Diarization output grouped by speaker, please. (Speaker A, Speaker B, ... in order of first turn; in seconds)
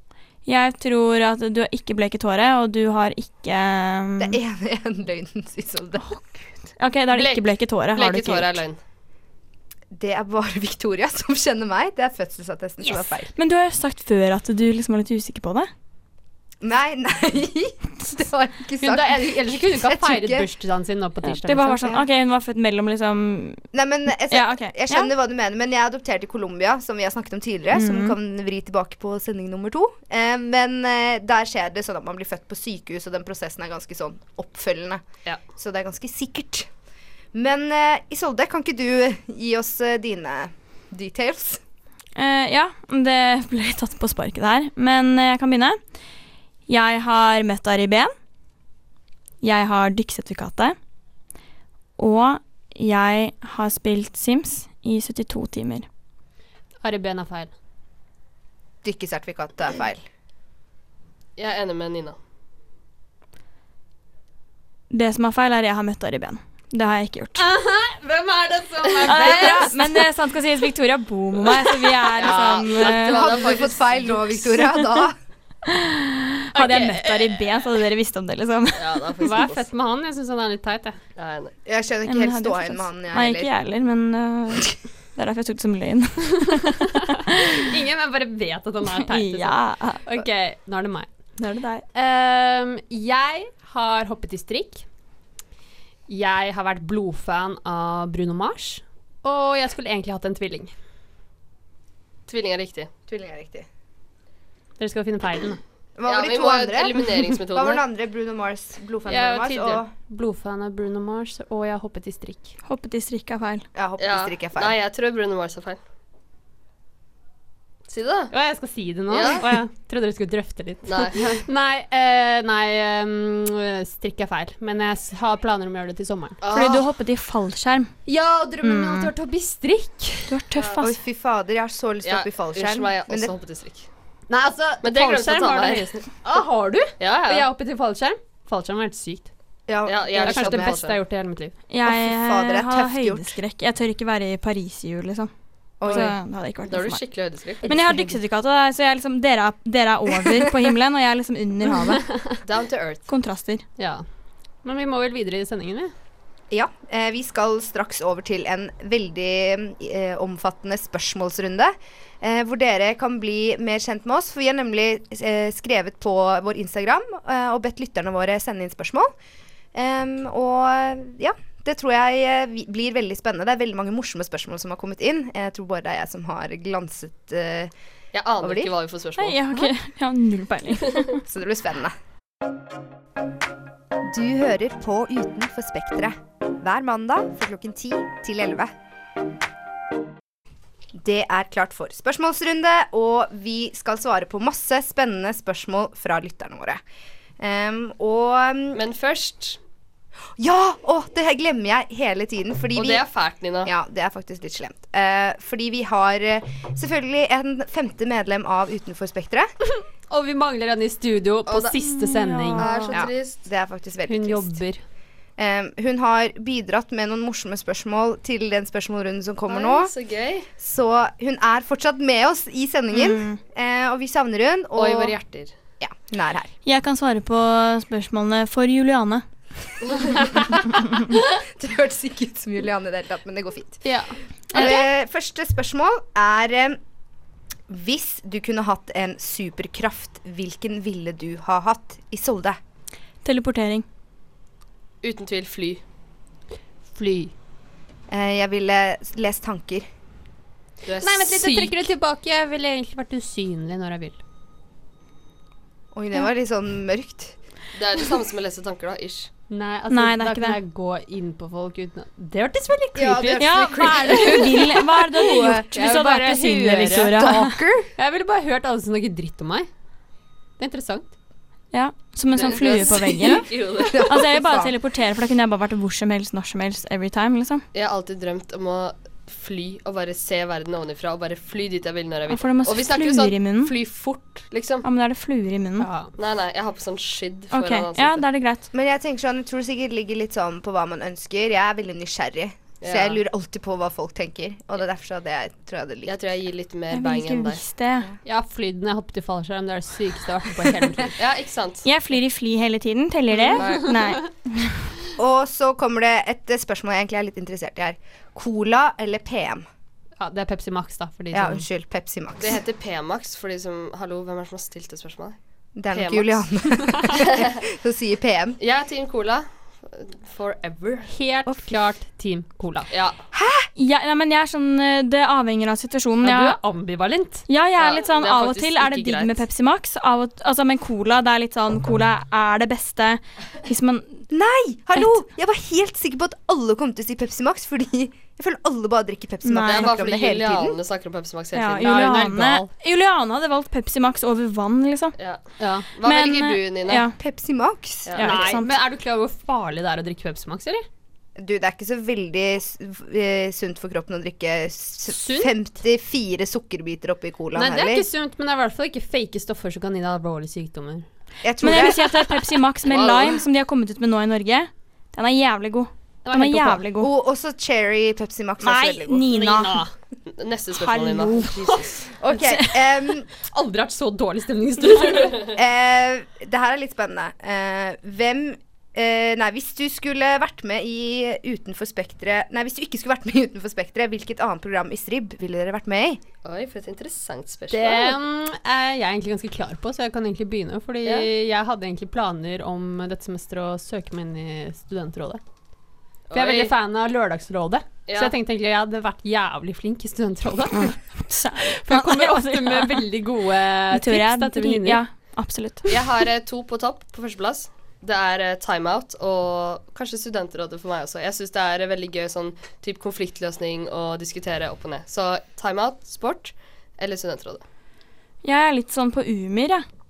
Speaker A: 0.5-4.4, 6.8-8.6, 13.4-15.7, 21.2-23.6, 24.3-25.1, 27.7-28.2, 42.2-45.8, 46.7-48.1, 49.4-50.8, 52.0-55.9, 64.9-67.4, 69.1-73.3, 74.6-75.0, 75.7-79.4, 82.1-87.7, 89.0-90.0, 91.4-91.8, 112.7-113.7, 126.5-127.9, 128.6-129.1, 130.3-131.0, 141.7-145.3, 145.9-147.0, 147.7-152.1, 153.1-153.6, 179.2-181.2, 211.9-212.8, 222.9-223.4, 226.7-229.3, 243.2-243.8, 259.9-260.6, 263.4-267.6, 271.7-273.5, 274.0-277.6, 282.3-283.8, 284.8-285.9, 287.5-288.7, 296.9-298.1, 301.9-304.8, 323.8-326.6, 327.5-334.2, 339.4-339.9, 341.5-345.1, 346.1-347.1, 348.1-348.7, 361.6-367.1, 368.6-369.8, 370.7-371.8, 372.4-372.8, 400.8-403.1, 403.9-405.9, 418.4-419.9
Speaker B: 4.2-6.2, 9.9-13.3, 16.6-20.5, 23.7-35.0, 35.6-36.7, 37.3-41.6, 58.8-60.0, 73.0-75.2, 81.7-83.5, 103.1-103.7, 106.0-109.9, 113.8-114.7, 130.8-133.3, 139.7-140.8, 141.8-143.4, 145.8-146.2, 156.5-169.1, 169.7-177.7, 178.4-178.7, 181.2-181.9, 184.0-188.7, 190.9-196.8, 197.4-198.8, 200.4-203.0, 203.6-209.5, 212.9-214.6, 215.4-219.9, 220.6-225.2, 225.8-226.5, 231.3-233.8, 234.5-236.8, 237.7-242.6, 248.1-249.9, 255.9-257.4, 262.9-265.7, 267.1-267.9, 272.4-274.7, 288.7-296.1, 305.2-309.6, 311.3-312.6, 315.8-318.6, 323.3-323.7, 334.3-340.8, 347.1-348.2, 351.4-358.1, 361.4-362.3, 366.9-369.3, 372.2-373.3, 375.5-386.2
Speaker C: 7.1-8.8, 61.4-62.2, 69.0-69.5, 72.2-74.3, 78.8-79.7, 81.2-81.5, 102.3-102.9, 106.1-107.8, 114.0-115.8, 117.9-118.3, 119.1-119.5, 120.8-121.2, 126.4-126.9, 130.6-130.9, 132.0-133.9, 134.8-136.1, 137.0-137.5, 139.8-141.0, 145.9-146.1, 146.6-148.1, 152.4-153.1, 178.1-179.7, 198.7-199.6, 202.8-203.7, 211.5-211.8, 212.6-213.4, 219.5-220.5, 224.8-225.5, 245.0-245.8, 250.8-251.9, 257.7-259.3, 272.4-274.3, 277.7-284.9, 286.2-288.2, 292.8-293.2, 296.1-297.6, 301.2-301.9, 303.4-304.0, 312.4-315.4, 315.9-316.5, 317.1-317.6, 318.6-321.1, 322.9-323.2, 327.8-329.4, 339.6-342.2, 345.9-347.1, 348.1-348.6, 362.8-363.4, 370.3-371.5, 386.4-388.2, 396.3-396.7, 398.1-398.3, 405.9-417.6
Speaker D: 18.8-22.0, 56.8-57.5, 67.4-70.1, 76.5-77.0, 79.2-81.0, 87.5-91.1, 91.9-94.8, 96.1-100.7, 104.8-105.6, 109.1-112.5, 118.3-126.4, 128.1-130.4, 134.3-139.3, 140.3-141.6, 151.8-152.3, 153.8-154.0, 154.6-155.9, 210.1-212.9, 214.1-214.8, 233.8-234.8, 246.9-247.3, 251.0-254.2, 259.5-263.8, 265.7-267.2, 268.0-269.7, 270.6-271.1, 285.8-286.1, 298.2-301.1, 303.6-304.2, 310.2-311.7, 321.1-322.9, 326.2-327.4, 341.8-342.7, 345.6-345.9, 348.2-350.9, 355.1-355.5, 357.6-361.1, 366.2-366.8, 369.3-369.9, 371.4-372.0, 373.4-375.5, 387.7-395.4, 396.3-401.0, 401.6-405.0